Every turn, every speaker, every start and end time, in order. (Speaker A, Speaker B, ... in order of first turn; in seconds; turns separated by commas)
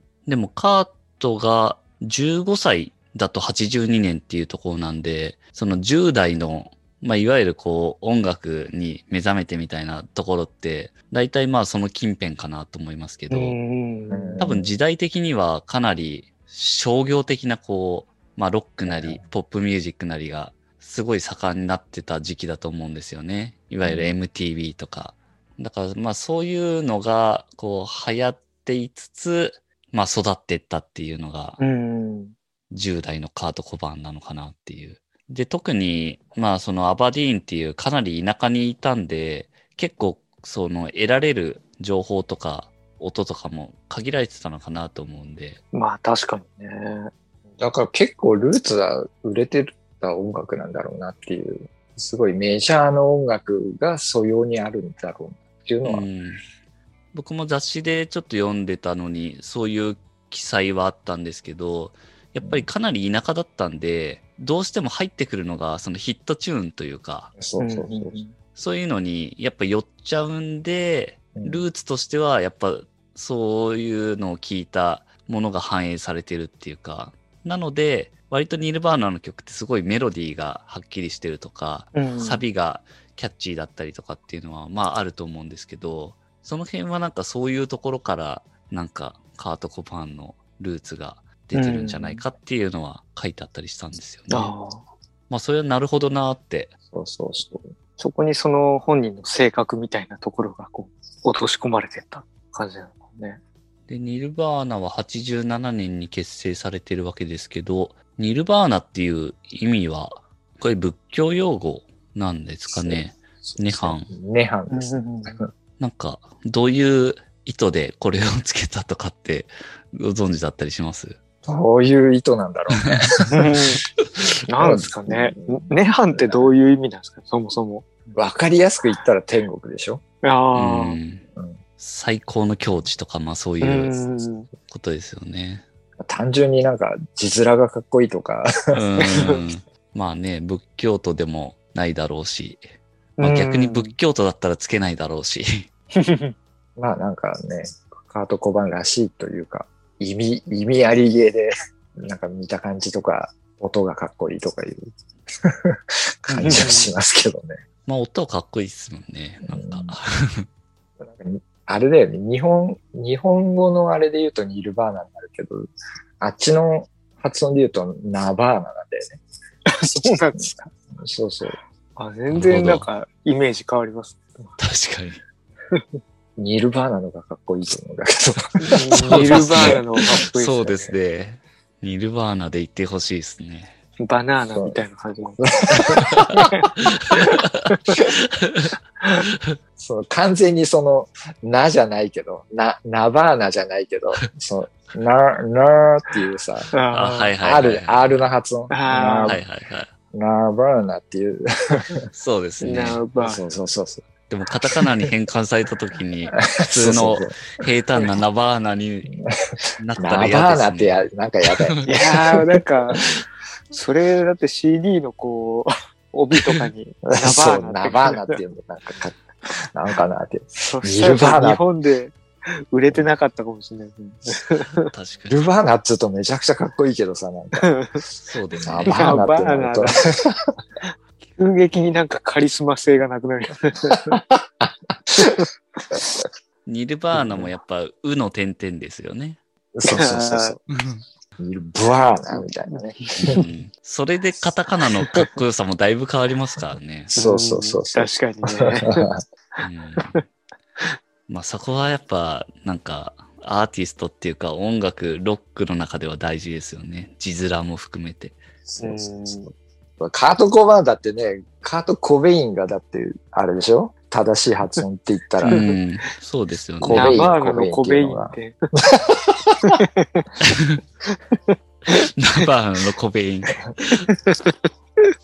Speaker A: 0.2-13.6, Speaker B: 13.3-14.4, Speaker C: 14.1-14.7, Speaker A: 14.4-31.6, Speaker C: 18.8-19.2, Speaker C: 23.8-24.2, Speaker B: 31.6-32.3, Speaker A: 32.7-45.6, Speaker B: 45.7-47.1, Speaker C: 47.6-56.1, Speaker A: 55.8-56.4, Speaker A: 57.1-67.3, Speaker C: 62.4-62.7, Speaker C: 67.4-68.2, Speaker B: 67.6-68.3, Speaker A: 68.5-94.5, Speaker C: 71.3-71.7, Speaker B: 81.9-82.5, Speaker B: 91.5-92.2, Speaker B: 94.3-94.8, Speaker A: 95.3-96.7, Speaker C: 96.9-97.7, Speaker B: 98.0-103.4, Speaker A: 103.9-114.1, Speaker C: 112.7-115.5, Speaker B: 114.7-115.4, Speaker A: 115.8-121.2, Speaker C: 121.4-123.1, Speaker B: 123.3-123.8, Speaker B: 124.5-127.8, Speaker C: 124.6-126.5, Speaker C: 128.1-130.0, Speaker B: 130.2-131.0, Speaker A: 130.5-131.2, Speaker A: 131.8-134.0, Speaker B: 133.6-134.5, Speaker A: 134.7-135.7, Speaker C: 136.0-138.5, Speaker A: 138.7-142.6, Speaker C: 139.0-139.3, Speaker B: 143.2-143.9, Speaker A: 143.2-145.7, Speaker B: 145.9-146.3, Speaker C: 146.8-154.9, Speaker C: 155.4-157.6, Speaker B: 156.3-156.9, Speaker A: 157.8-160.5, Speaker C: 159.5-159.9, Speaker C: 161.0-165.7, Speaker C: 166.2-169.2, Speaker B: 169.7-170.6, Speaker C: 170.1-171.6, Speaker B: 171.9-174.6, Speaker A: 172.3-172.9, Speaker A: 174.6-175.2, Speaker C: 176.4-179.8, Speaker B: 178.6-180.8, Speaker A: 178.9-183.7, Speaker B: 184.0-185.4, Speaker C: 184.5-184.8, Speaker C: 185.4-186.5, Speaker A: 186.4-188.7, Speaker B: 186.4-186.7, Speaker B: 187.7-188.0, Speaker C: 189.8-196.7, Speaker B: 196.7-197.3, Speaker A: 196.9-198.2, Speaker C: 197.4-199.4, Speaker B: 198.7-199.4, Speaker A: 199.2-199.9, Speaker C: 200.1-202.0, Speaker A: 202.1-203.0, Speaker B: 202.6-203.4, Speaker C: 203.2-204.1, Speaker A: 204.3-209.2, Speaker C: 206.3-207.6, Speaker A: 209.8-211.8, Speaker C: 210.0-212.4, Speaker B: 211.8-218.3, Speaker C: 217.0-221.6, Speaker B: 220.6-222.2, Speaker B: 222.7-224.9, Speaker A: 224.7-225.5, Speaker C: 225.3-227.7, Speaker B: 227.6-228.0, Speaker A: 228.2-229.2, Speaker C: 228.6-230.5, Speaker B: 228.8-230.1, Speaker B: 231.4-234.2, Speaker C: 234.1-235.5, Speaker B: 235.2-235.5, Speaker A: 236.6-239.4, Speaker C: 237.2-237.5, Speaker C: 239.7-240.6, Speaker B: 239.8-240.6, Speaker A: 240.7-241.0, Speaker C: 241.4-243.4, Speaker B: 242.3-243.4, Speaker A: 243.2-247.2, Speaker B: 247.1-250.2, Speaker C: 247.2-249.2, Speaker A: 249.6-250.2, Speaker A: 251.3-258.4, Speaker C: 258.7-265.7, Speaker B: 258.8-259.5, Speaker A: 265.4-267.3, Speaker B: 265.5-265.8, Speaker C: 266.8-269.6, Speaker B: 266.9-268.6, Speaker B: 269.6-270.2, Speaker A: 270.4-270.8, Speaker B: 271.1-271.5, Speaker A: 271.9-274.0, Speaker B: 274.1-275.1